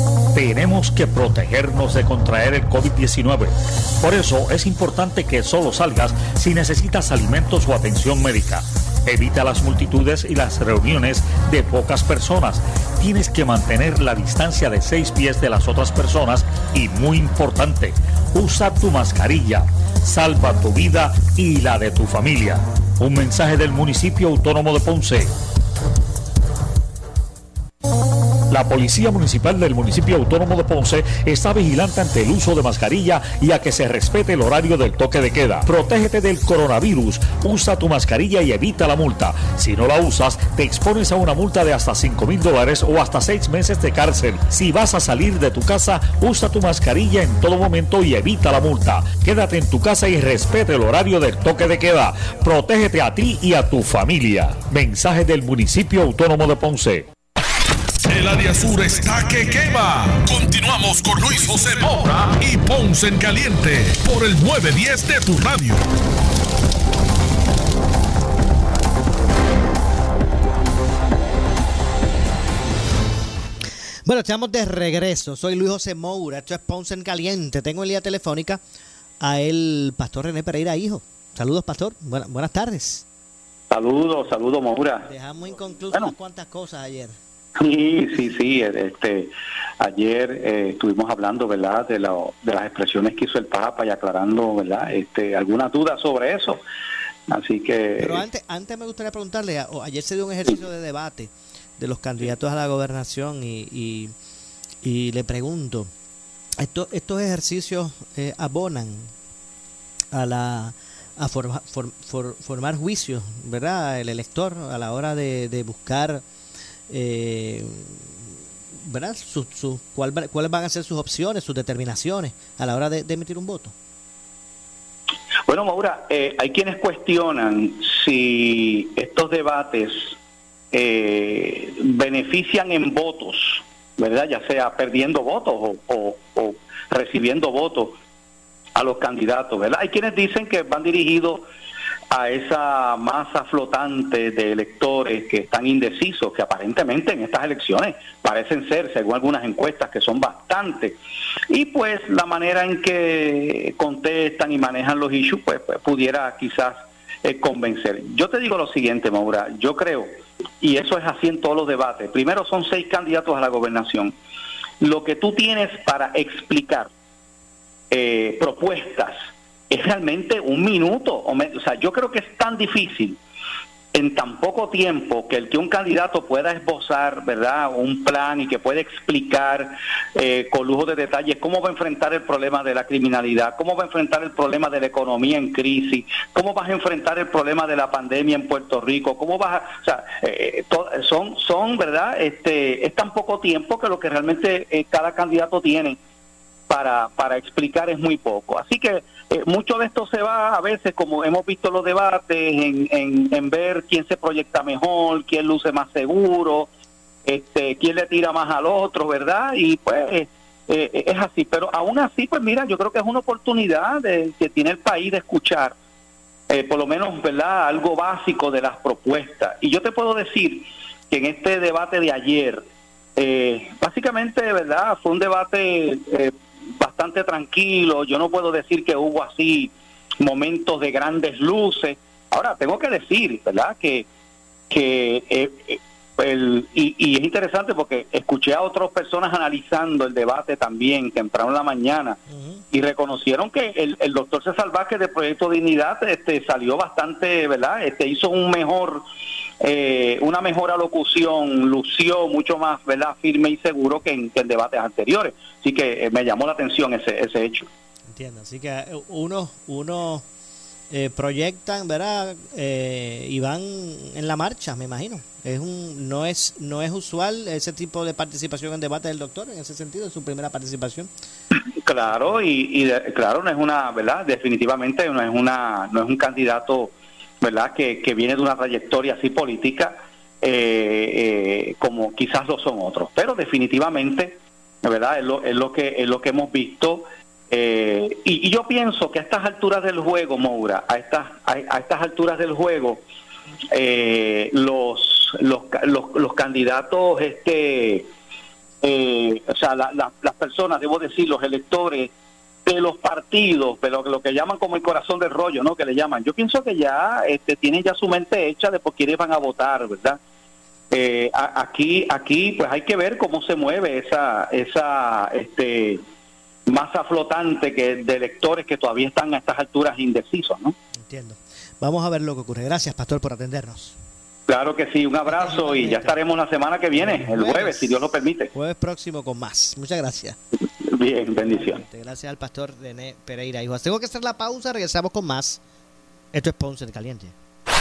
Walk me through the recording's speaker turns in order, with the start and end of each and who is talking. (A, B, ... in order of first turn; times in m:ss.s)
0:00.3-0:25.3 A
0:28.5-0:57.1 A
0:58.0-1:05.8 B
1:14.1-1:18.6 C
1:19.2-1:23.0 C
1:23.7-1:25.1 D
1:25.0-1:27.2 C
1:27.6-1:36.6 D
1:37.3-1:38.2 D
1:38.0-1:44.1 C
1:44.8-1:45.9 C
1:46.6-1:49.1 C
1:50.1-1:56.2 C
1:56.9-1:58.1 C
1:58.8-2:03.7 C
2:05.5-2:10.2 D
2:10.7-2:18.0 D
2:18.8-2:21.4 D
2:22.1-2:31.0 D
2:31.5-2:44.2 D
2:44.8-2:46.9 D
2:47.9-2:53.2 D
2:53.9-3:16.0 D
3:16.7-3:26.7 D
3:27.3-3:35.8 D
3:36.5-3:54.1 D
3:54.7-4:02.2 D
4:02.3-4:02.6 C
4:02.7-4:09.0 D
4:09.6-4:17.7 D
4:18.1-4:20.2 C
4:20.9-4:31.1 C
4:31.8-4:53.0 D
4:53.7-4:58.1 D
4:58.8-5:02.1 D
5:02.7-5:10.2 D
5:10.9-5:16.0 D
5:16.7-5:20.8 D
5:21.0-5:24.0 C
5:24.5-5:28.5 D
5:25.3-5:26.2 C
5:27.0-5:28.0 C
5:28.5-5:30.4 C
5:30.8-5:31.8 D
5:31.4-5:35.6 C
5:36.3-5:37.3 C